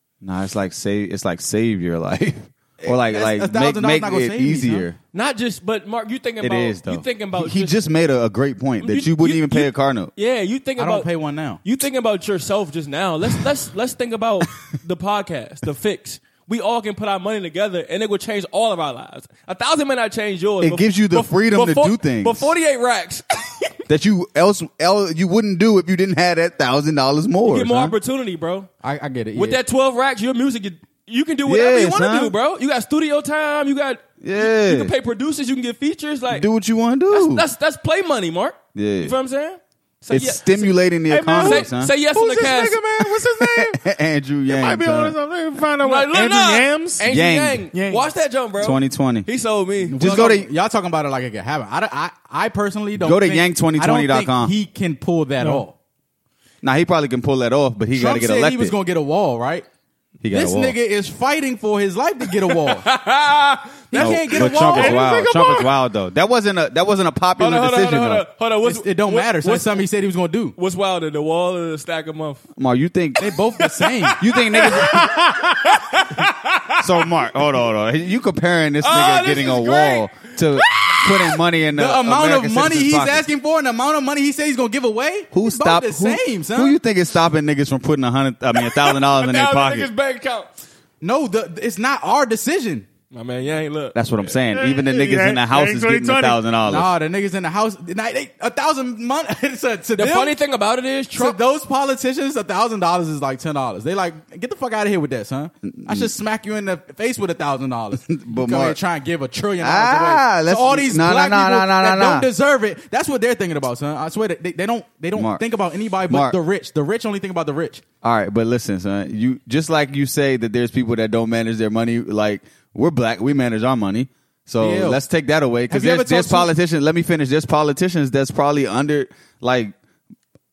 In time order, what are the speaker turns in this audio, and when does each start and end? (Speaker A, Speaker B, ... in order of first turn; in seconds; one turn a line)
Speaker A: 0.2-5.0
Speaker B: 2.8-4.9
Speaker C: 5.1-7.8
Speaker A: 6.4-10.1
Speaker C: 8.8-11.1
Speaker B: 10.8-11.6
Speaker C: 11.6-23.7
Speaker A: 20.6-22.5
Speaker A: 23.9-27.9
Speaker C: 27.5-28.7
Speaker B: 28.8-29.6
Speaker C: 29.3-36.5
Speaker A: 31.4-32.3
Speaker A: 34.2-34.9
Speaker A: 36.3-37.5
Speaker C: 37.1-42.8
Speaker A: 38.7-39.1
Speaker A: 40.1-41.9
Speaker D: 41.1-43.8
Speaker A: 43.4-45.1
Speaker D: 44.5-47.1
Speaker C: 45.8-50.4
Speaker A: 47.0-47.7
Speaker D: 47.7-48.1
Speaker A: 48.6-49.3
Speaker B: 49.8-55.7
Speaker A: 50.0-50.5
Speaker A: 52.9-54.5
Speaker A: 56.6-58.7
Speaker B: 57.9-59.6
Speaker A: 60.2-60.7
Speaker B: 60.3-62.9
Speaker C: 62.5-64.4
Speaker B: 63.9-65.1
Speaker A: 63.9-68.3
Speaker D: 64.8-65.7
Speaker C: 67.4-69.8
Speaker B: 68.6-70.5
Speaker C: 70.6-72.4
Speaker A: 72.5-73.3
Speaker B: 73.2-74.2
Speaker A: 74.2-75.1
Speaker D: 74.6-76.8
Speaker C: 74.6-75.0
Speaker C: 75.5-76.3
Speaker A: 76.8-83.3
Speaker C: 78.8-81.3
Speaker B: 81.7-86.8
Speaker A: 85.3-89.9
Speaker C: 88.5-90.5
Speaker B: 91.0-92.8
Speaker C: 93.1-94.3
Speaker A: 93.9-96.9
Speaker D: 94.5-96.4
Speaker B: 96.6-100.4
Speaker C: 100.0-101.4
Speaker B: 101.1-117.8
Speaker A: 105.7-106.1
Speaker A: 108.1-108.8
Speaker A: 109.6-112.3
Speaker A: 115.1-115.4
Speaker A: 116.1-116.4
Speaker A: 118.0-129.7
Speaker B: 124.6-125.0
Speaker B: 125.7-126.5